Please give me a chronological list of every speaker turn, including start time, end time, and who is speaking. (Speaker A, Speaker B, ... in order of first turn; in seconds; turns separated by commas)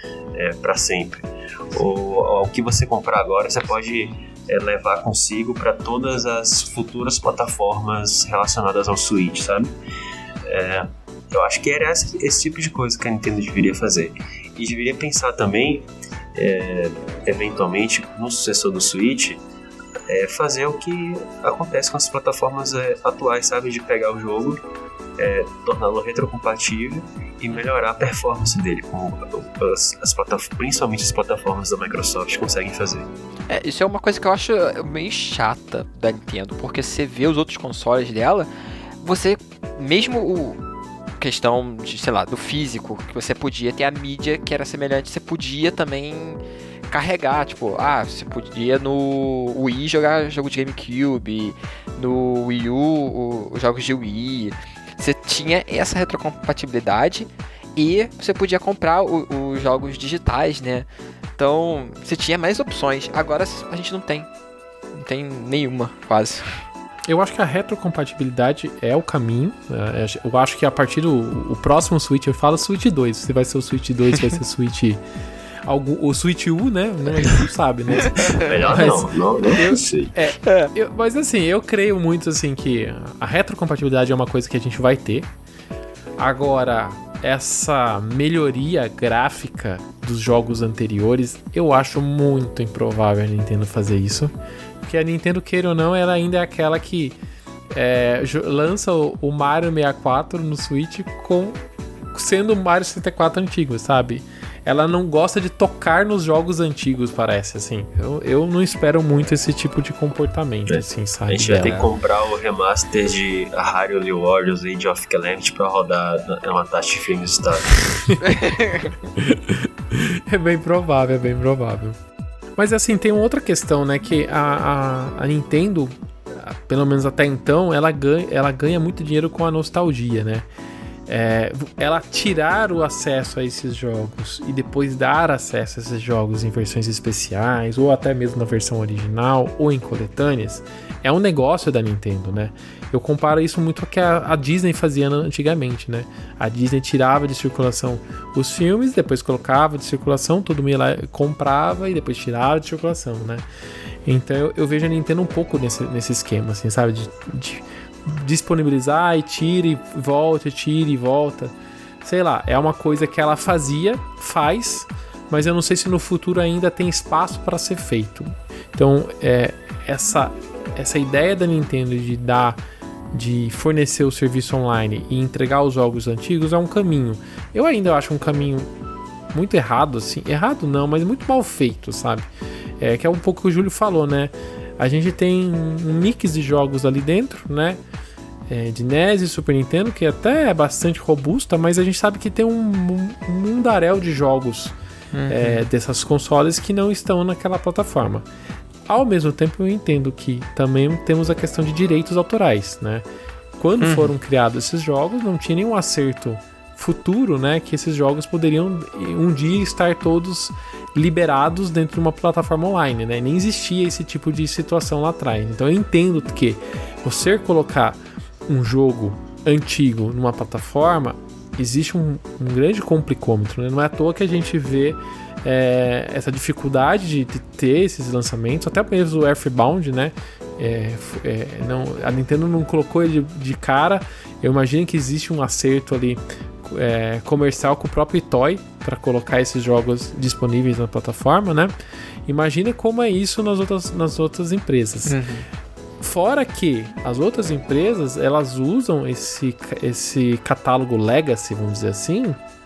Speaker A: 0.3-9.7, Speaker A: 10.4-19.4, Speaker A: 20.1-24.6, Speaker A: 25.2-33.1, Speaker B: 33.5-38.5, Speaker B: 39.0-40.6, Speaker B: 41.2-64.3, Speaker B: 64.9-66.6, Speaker C: 67.1-75.0, Speaker C: 75.6-85.3, Speaker B: 78.0-78.5, Speaker A: 78.2-80.1, Speaker B: 80.4-80.7, Speaker C: 86.2-97.1, Speaker C: 97.7-101.6, Speaker C: 102.1-111.8, Speaker A: 110.7-117.7, Speaker B: 111.6-111.9, Speaker B: 118.2-118.8, Speaker C: 119.2-122.0, Speaker C: 122.6-130.5, Speaker C: 131.1-153.4, Speaker C: 154.1-172.6, Speaker C: 173.1-178.7, Speaker C: 179.3-182.3, Speaker C: 182.8-187.8, Speaker C: 188.5-194.7, Speaker B: 195.1-195.6, Speaker C: 195.3-198.2, Speaker C: 198.9-203.0, Speaker C: 203.6-241.7, Speaker B: 203.8-204.1, Speaker C: 242.3-245.2, Speaker B: 245.1-245.4, Speaker C: 246.0-252.4